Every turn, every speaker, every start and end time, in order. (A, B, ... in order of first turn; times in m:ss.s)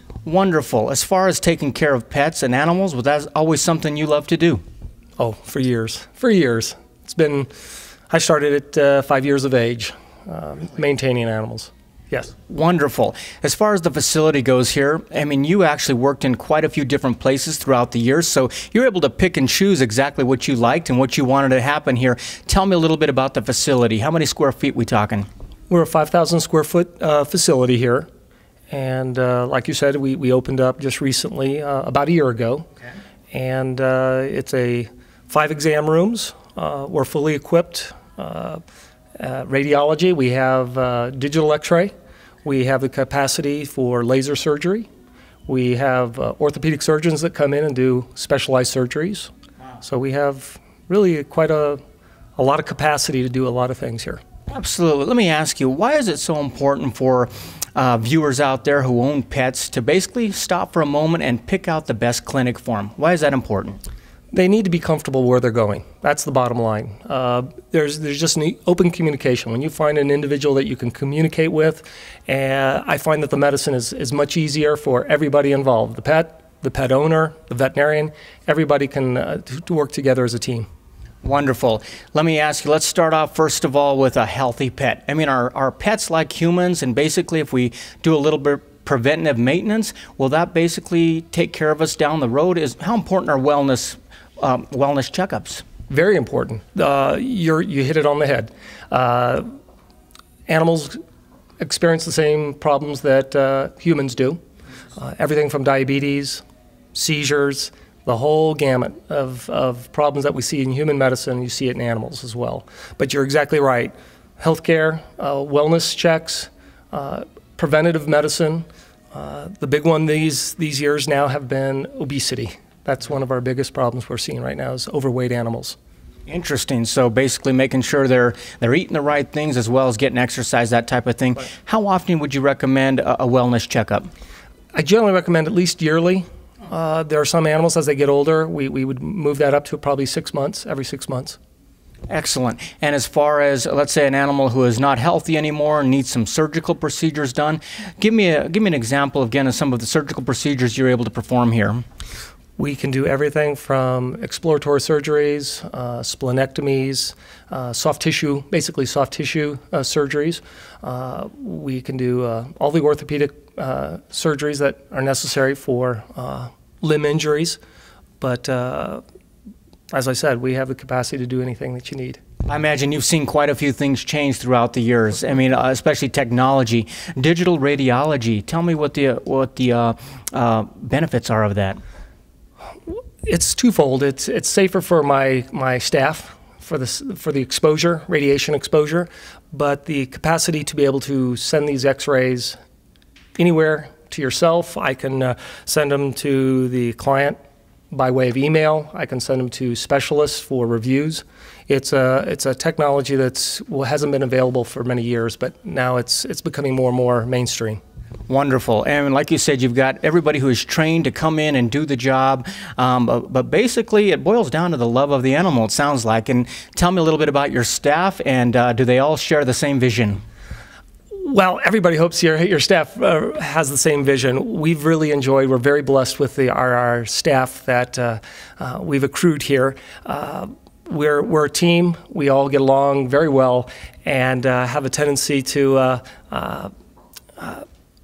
0:00.3-0:04.6 A
0:05.2-0:07.5 B
0:08.1-0:12.3 B
0:12.5-0:25.3 A
0:25.7-0:28.1 B
0:28.7-0:32.7 B
0:33.3-0:38.6 B
0:39.2-0:41.9 B
0:42.4-0:44.9 B
0:45.5-0:51.8 B
0:52.4-0:54.2 B
0:54.5-1:03.8 A
1:04.3-1:20.7 B
1:21.2-1:35.6 A
1:35.9-1:39.5 B
1:40.5-1:41.0 B
1:41.6-1:44.4 B
1:45.0-1:46.4 B
1:46.9-2:05.8 B
2:06.3-2:14.1 A
2:14.7-2:21.4 B
2:22.1-2:31.8 A
2:32.6-2:47.6 B
2:48.2-2:49.0 B
2:49.9-2:52.2 B
2:52.5-3:01.8 A
3:03.2-3:12.6 B
3:13.4-3:17.4 B
3:17.9-3:27.8 B
3:28.3-3:40.2 A
3:41.1-3:56.7 B
3:57.4-3:57.6 B